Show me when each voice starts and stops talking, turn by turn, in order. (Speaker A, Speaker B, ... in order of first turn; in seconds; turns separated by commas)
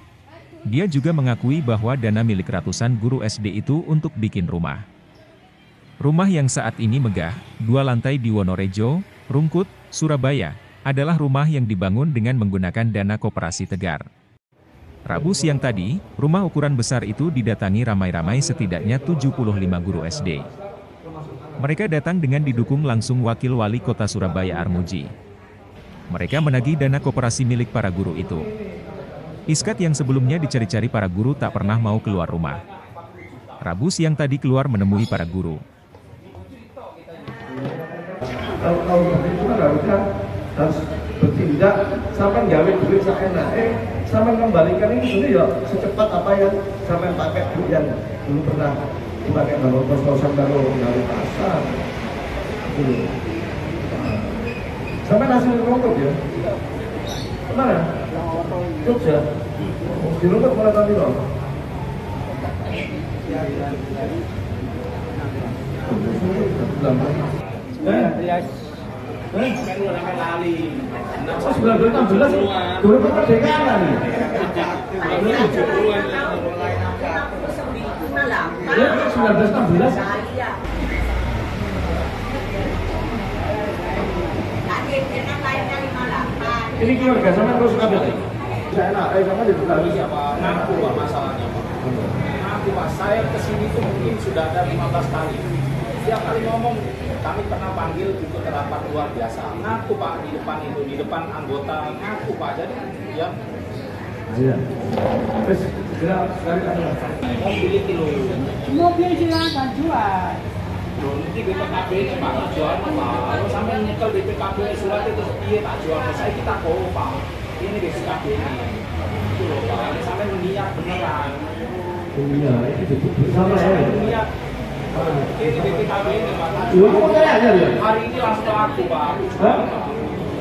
Speaker A: 0.7-4.8, Speaker A: 6.0-14.0, Speaker A: 15.1-20.5, Speaker A: 21.6-25.1, Speaker A: 26.1-28.5, Speaker A: 29.5-32.6, Speaker A: 33.6-35.6, Speaker B: 37.6-40.0, Speaker B: 40.5-51.8, Speaker B: 52.6-53.1, Speaker B: 53.9-54.4, Speaker B: 55.0-56.2, Speaker B: 57.5-58.0, Speaker C: 58.3-58.7, Speaker B: 58.8-59.3, Speaker B: 59.8-61.2, Speaker C: 63.4-63.9, Speaker B: 65.8-67.2, Speaker B: 67.8-68.2, Speaker C: 67.9-68.6, Speaker D: 69.5-72.9, Speaker B: 71.5-74.3, Speaker D: 74.2-76.7, Speaker C: 77.0-78.7, Speaker B: 78.7-80.1, Speaker C: 80.2-80.5, Speaker C: 84.7-86.6, Speaker B: 86.7-90.8, Speaker D: 89.7-95.5, Speaker D: 96.0-103.4, Speaker B: 104.3-104.8, Speaker B: 105.3-107.2, Speaker D: 107.3-108.5, Speaker C: 108.5-110.4, Speaker D: 111.0-121.5, Speaker B: 122.1-124.0, Speaker D: 123.3-124.3, Speaker D: 124.9-130.2, Speaker B: 126.9-127.8